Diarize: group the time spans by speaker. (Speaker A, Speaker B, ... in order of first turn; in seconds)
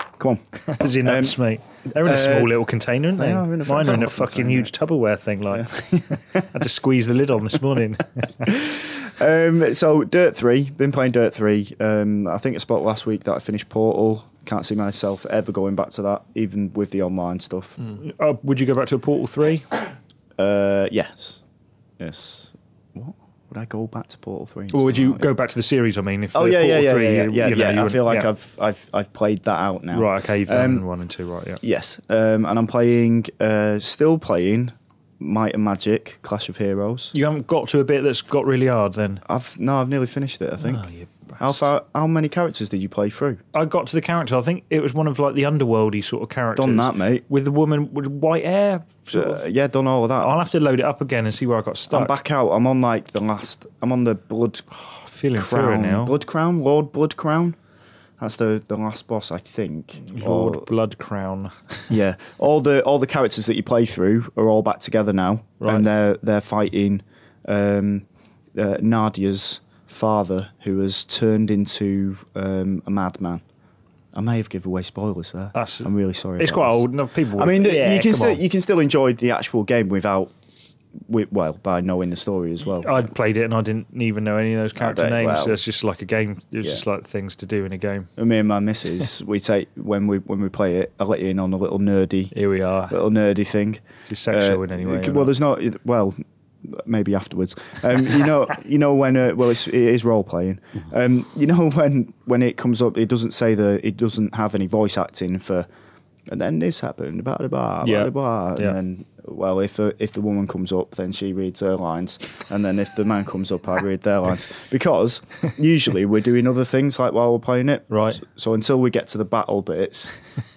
Speaker A: 0.2-0.4, 1.0-1.4, 1.9-2.5, 3.2-4.7, 5.5-6.4, 8.4-17.8, 20.4-21.4, 22.0-25.2, 26.3-30.9, 31.6-37.1, 39.2-40.8, 41.4-43.4, 46.5-47.2, 49.1-50.3, 51.9-54.6, 55.4-57.6, 58.2-60.7, 61.9-73.4, 74.1-80.3, 81.1-83.1, 84.8-85.6, 88.2-92.3, 92.9-105.7, 106.3-120.1
Speaker B: 0.6-8.6, 18.0-19.7, 24.7-28.3, 29.9-31.6, 37.1-39.2, 40.6-41.7, 43.5-49.4, 50.2-52.2, 54.9-56.1, 60.0-61.9, 65.6-65.9, 75.5-78.4, 82.8-88.1, 92.3-93.0, 94.0-95.3, 107.8-108.8, 117.9-118.2